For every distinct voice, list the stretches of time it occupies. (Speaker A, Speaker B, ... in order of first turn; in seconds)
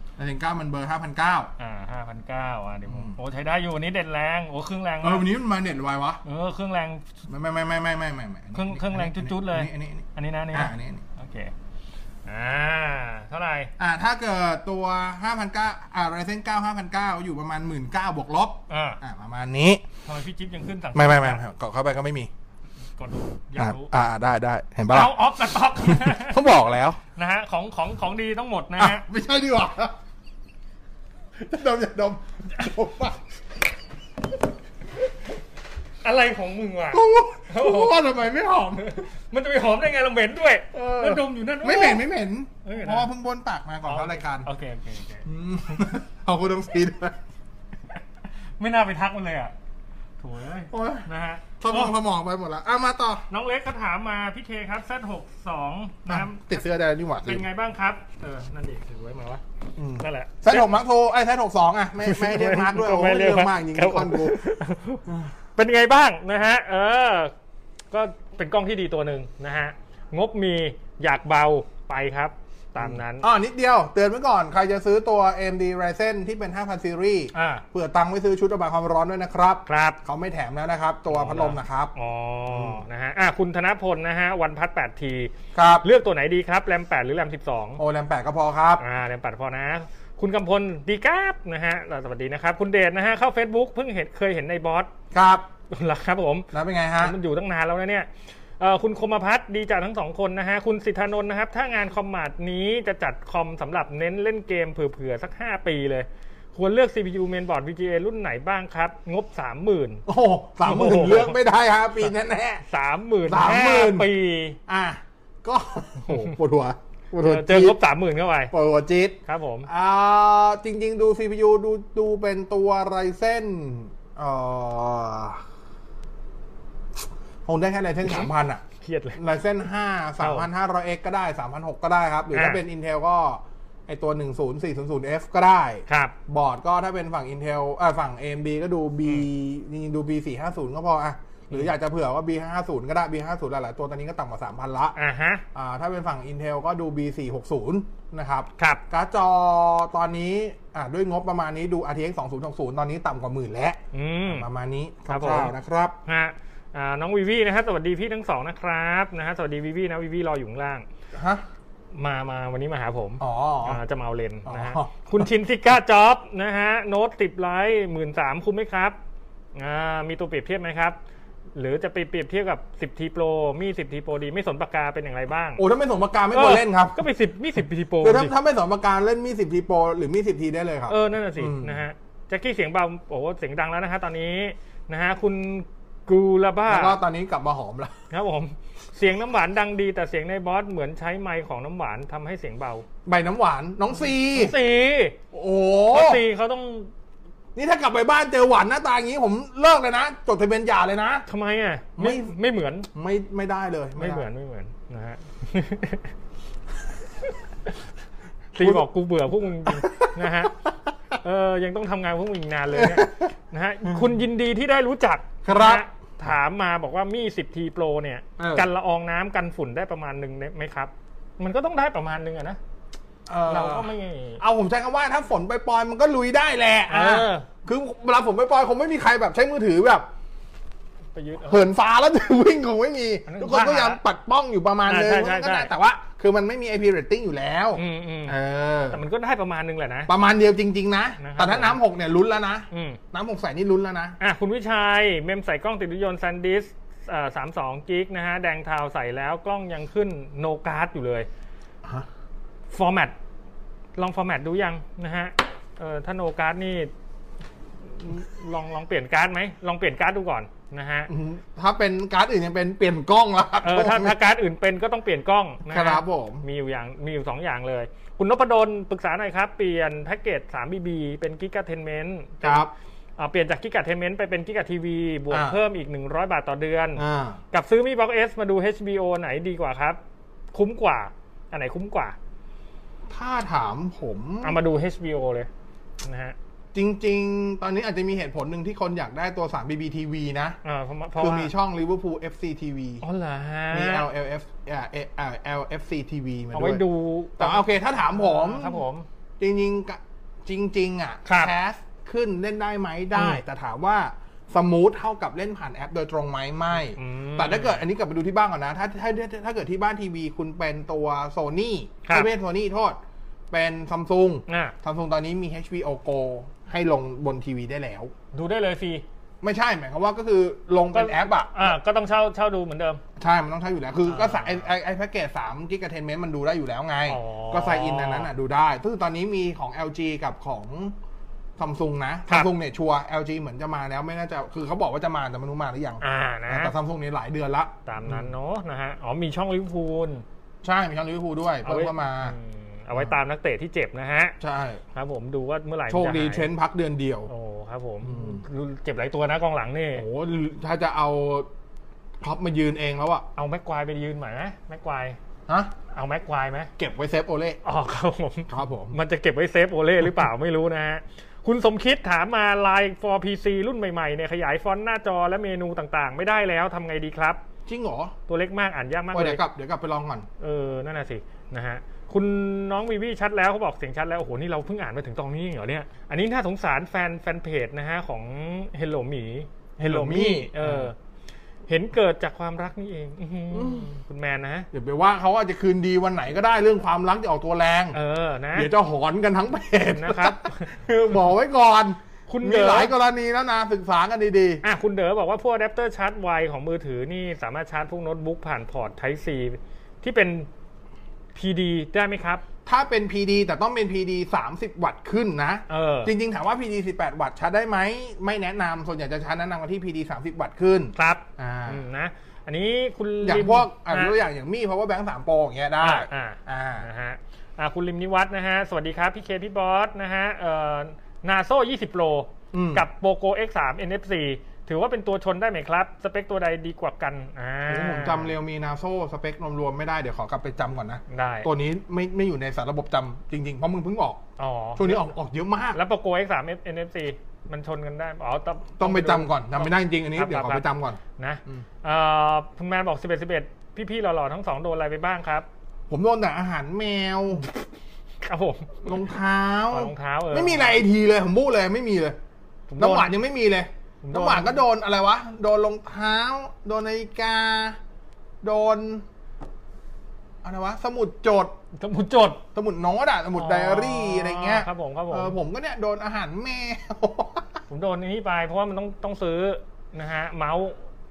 Speaker A: 0.2-1.5, 2.9-3.2, 5.0-6.2, 7.3-11.0, 13.8-19.8, 20.9-22.3, 23.6-25.2, 25.8-27.0, 28.8-29.9, 31.4-33.2, 36.9-38.9, 40.7-44.5, 45.3-47.2, 50.7-51.1, 51.6-53.2, 56.1-57.5, 59.8-64.4, 72.8-81.9, 82.5-82.8, 85.5-85.9, 87.8-88.8, 95.1-95.5, 96.5-97.2, 110.1-112.6, 113.3-114.1, 114.7-117.8, 118.5-125.4, 127.5-128.6, 129.2-145.0, 145.5-156.0, 161.1-161.4, 163.2-163.8, 164.4-165.2, 175.6-177.0, 178.0-181.8, 186.7-187.9, 193.1-194.6, 195.3-196.2, 197.6-201.2, 202.0-202.3, 202.9-204.3, 209.7-210.1, 212.7-213.3, 215.4-215.8, 218.4-218.7, 223.3-230.1, 231.5-239.0, 240.1-244.2, 261.1-264.2, 265.7-266.4, 272.4-272.7, 275.3-275.6, 277.0-277.4, 283.1-284.6, 286.7-290.6, 291.2-293.0, 293.7-296.8, 297.4-298.8, 299.4-313.0, 313.5-318.1, 319.4-321.8, 323.2-331.0, 331.6-338.3, 340.6-342.4, 344.4-344.8, 345.9-347.3, 348.0-348.4, 349.9-351.5, 352.2-353.3, 355.5-355.7, 356.8-357.6, 358.5-359.0, 367.7-368.1, 369.1-370.3, 379.8-380.9, 383.5-383.9, 384.7-388.0, 388.5-394.6, 402.7-411.8, 413.2-416.9, 422.5-422.9, 427.7-434.2, 434.8-435.8, 438.8-441.6, 445.9-447.5, 448.8-452.2, 452.8-457.8, 458.4-459.1, 460.4-461.5, 462.5-467.5
Speaker B: 1.6-5.3, 6.2-7.1, 8.5-11.5, 12.3-13.7, 18.7-19.0, 20.1-21.4, 23.0-23.9, 24.9-26.5, 27.1-29.0, 36.0-38.0, 38.8-42.1, 42.6-43.1, 43.9-45.3, 48.6-49.5, 50.2-51.9, 53.3-56.5, 57.2-59.4, 60.0-60.7, 62.0-67.3, 67.9-73.3, 77.3-77.6, 79.7-80.0, 81.1-87.8, 88.8-94.9, 95.7-98.1, 98.6-110.0, 110.6-111.4, 112.7-114.6, 116.1-116.3, 117.2-118.5, 119.3-119.7, 128.8-129.2, 130.2-130.5, 132.3-132.6, 135.9-136.2, 145.0-145.4, 153.9-154.5, 155.1-155.5, 156.1-160.8, 161.9-169.0, 169.6-171.0, 171.6-175.6, 176.3-178.3, 180.9-187.0, 188.1-192.8, 194.0-195.2, 195.9-196.9, 201.3-202.9, 204.0-206.1, 208.5-210.6, 211.2-222.6, 223.5-224.4, 226.9-227.5, 231.2-231.7, 233.3-234.0, 234.9-235.7, 237.8-238.4, 238.9-240.1, 241.2-241.8, 242.7-243.0, 244.2-251.3, 252.7-253.1, 254.0-256.9, 258.0-261.1, 263.6-272.7, 273.2-280.0, 280.5-282.2, 284.4-285.5, 286.0-286.4, 290.6-291.5, 293.0-294.1, 296.5-299.1, 301.3-301.5, 303.1-303.4, 306.9-307.8, 312.1-312.3, 314.5-314.8, 318.3-319.0, 320.9-323.0, 324.1-324.7, 327.1-328.3, 336.0-336.7, 337.9-340.2, 341.6-344.4, 344.9-346.5, 347.3-350.1, 353.4-355.2, 355.9-356.7, 357.6-367.4, 368.3-369.4, 370.4-380.9, 381.7-384.7, 387.9-388.7, 389.9-390.7, 392.3-392.9, 394.6-400.5, 401.4-402.4, 405.7-406.1, 410.9-414.1, 415.8-428.3, 431.1-431.5, 434.4-435.1, 435.7-440.7, 441.2-445.5, 448.2-448.9, 449.7-450.8, 452.7-453.1, 454.0-454.6, 461.7-462.4, 463.4-465.4, 467.7-470.8